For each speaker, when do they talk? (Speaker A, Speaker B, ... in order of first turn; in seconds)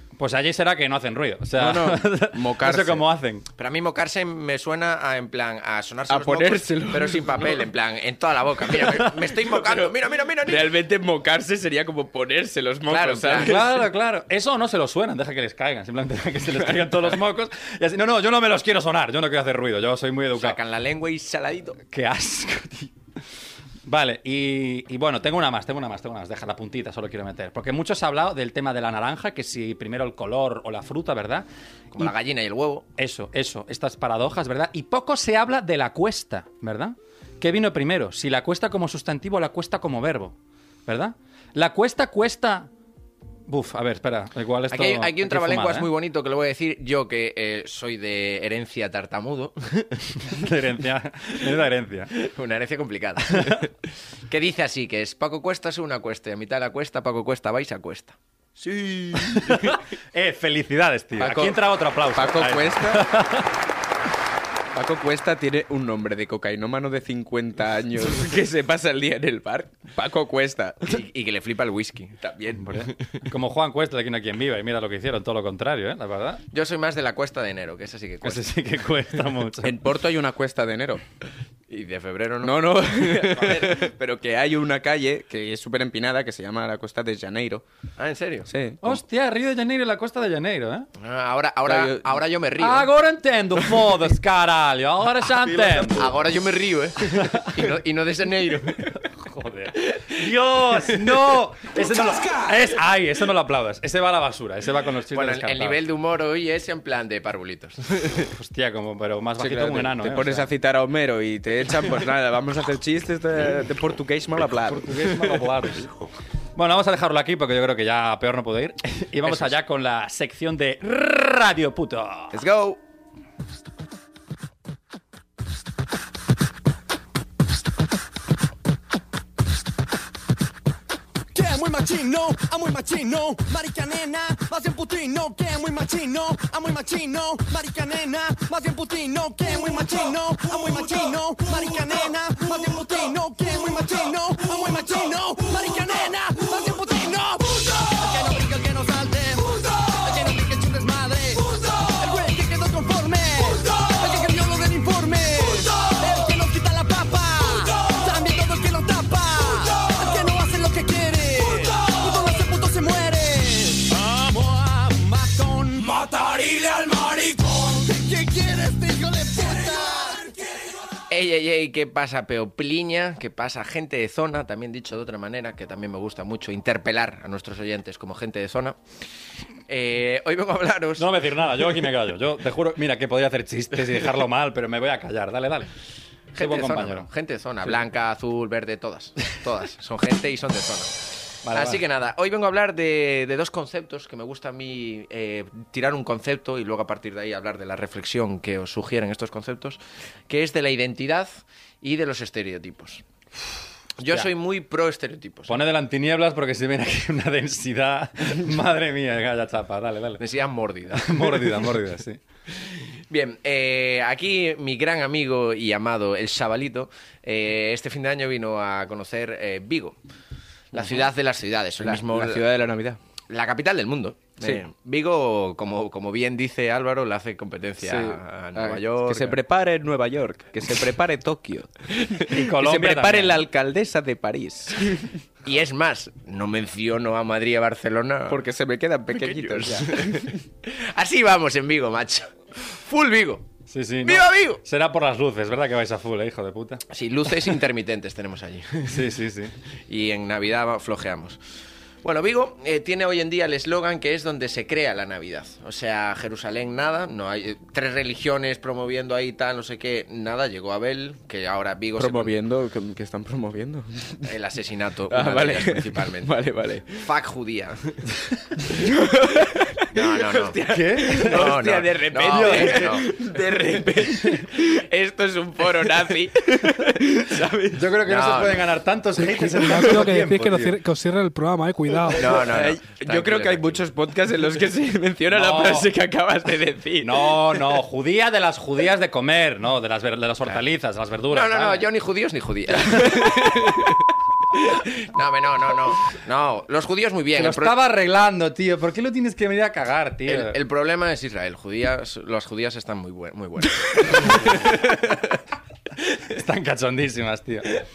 Speaker A: 0.2-3.5, 13.3-20.6, 21.9-22.9, 23.9-31.5, 33.0-40.4, 40.9-42.7, 43.5-45.9, 50.2-52.1, 53.4-53.6, 59.1-63.5, 72.6-76.4, 78.2-79.8, 88.8-90.9, 92.6-96.1, 97.1-97.5, 98.9-105.8, 108.3-110.5, 114.7-115.9, 116.6-122.4, 181.0-185.7, 186.4-187.1, 191.4-191.8, 205.5-210.2, 210.9-212.2, 232.3-233.4, 243.7-246.8, 248.9-249.5, 270.7-271.5, 272.3-273.0, 277.8-280.8, 285.3-285.9, 287.0-291.8, 297.4-300.6, 304.2-304.8, 306.2-307.8
Speaker B: 1.6-3.0, 6.1-7.7, 9.5-13.8, 16.6-17.0, 62.1-63.1, 64.7-71.0, 72.2-72.7, 79.6-81.0, 82.4-87.6, 88.5-89.0, 91.7-92.2, 109.4-115.4, 122.3-122.8, 220.8-221.0, 221.8-223.0, 227.8-235.2, 238.3-240.4, 262.0-264.3, 265.1-267.1, 268.6-277.9, 282.1-287.8
Speaker C: 3.6-10.7, 12.9-13.8, 20.4-21.8, 31.9-32.9, 44.7-50.1, 52.1-53.7, 54.3-58.2, 59.1-59.8, 61.2-61.5, 70.9-72.3, 76.5-78.5, 81.7-83.9, 88.0-88.5, 91.0-92.9, 95.5-99.0, 105.1-108.3, 171.1-178.8, 179.7-181.1, 186.3-190.9, 191.5-203.0, 204.0-205.6, 210.2-211.7, 212.7-220.0, 220.7-222.4, 223.3-229.4, 235.4-238.4, 239.1-243.5, 244.0-244.6, 246.9-249.1, 249.9-251.4, 252.0-262.3, 264.2-266.3, 267.0-268.1, 269.9-273.1, 275.6-276.1, 278.1-278.7, 282.1-283.8, 291.3-297.8, 300.3-305.4
Speaker D: 131.4-170.3
Speaker E: 140.4-141.8, 279.5-282.4